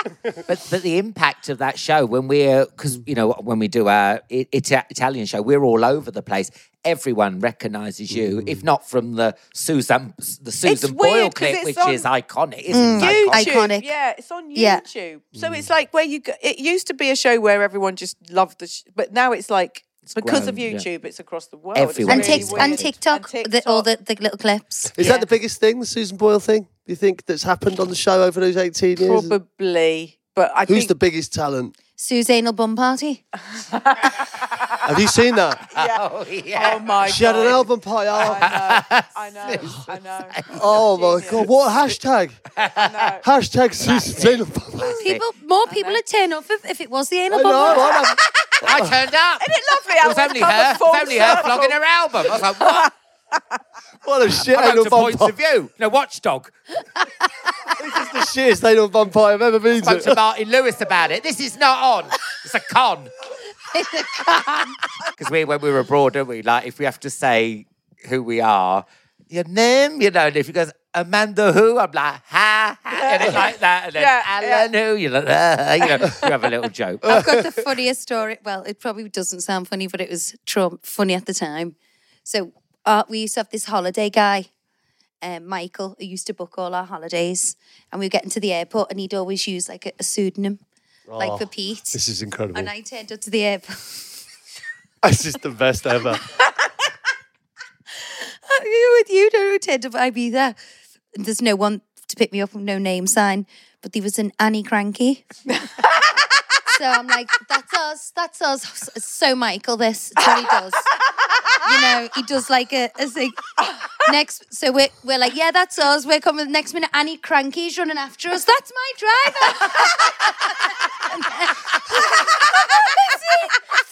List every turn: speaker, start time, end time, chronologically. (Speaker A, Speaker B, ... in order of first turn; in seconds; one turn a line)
Speaker A: 0.4-13.6
Speaker B: 8.1-8.7
Speaker C: 10.6-12.1
Speaker D: 12.7-13.9
Speaker B: 12.8-13.0
Speaker C: 13.0-23.9
Speaker D: 14.5-14.8
Speaker B: 15.3-15.7
Speaker A: 20.1-20.9
Speaker A: 21.7-22.9
Speaker D: 22.1-25.0
Speaker B: 24.9-29.3
Speaker C: 25.0-25.3
Speaker C: 29.0-30.9
Speaker B: 30.7-31.7
Speaker D: 32.0-33.2
Speaker C: 33.5-34.6
Speaker B: 34.8-35.6
Speaker C: 35.7-41.5
Speaker A: 35.7-36.9
Speaker B: 37.0-38.5
Speaker A: 38.2-40.7
Speaker B: 40.5-42.4
Speaker A: 42.6-43.1
Speaker C: 42.7-43.2
Speaker B: 43.2-45.0
Speaker A: 43.8-45.2
Speaker D: 44.9-47.9
Speaker C: 45.7-46.0
Speaker B: 47.3-49.0
Speaker C: 47.6-48.0
Speaker A: 48.6-52.9
Speaker C: 49.4-52.9
Speaker B: 54.0-55.3
Speaker A: 54.5-56.5
Speaker B: 57.8-60.2
Speaker A: 59.8-63.1
Speaker D: 63.7-64.1
Speaker A: 64.0-77.2
Speaker C: 72.9-74.7
Speaker C: 75.8-76.2
Speaker D: 77.0-81.7
Speaker B: 77.1-77.4
Speaker D: 82.2-84.5
Speaker D: 85.2-90.6
Speaker B: 91.1-92.7
Speaker D: 91.2-92.0
Speaker D: 92.5-94.1
Speaker B: 95.0-96.2
Speaker D: 98.0-100.6
Speaker D: 101.1-105.2
Speaker D: 106.7-110.9
Speaker D: 111.6-113.5
Speaker D: 114.0-123.5
Speaker C: 122.6-122.9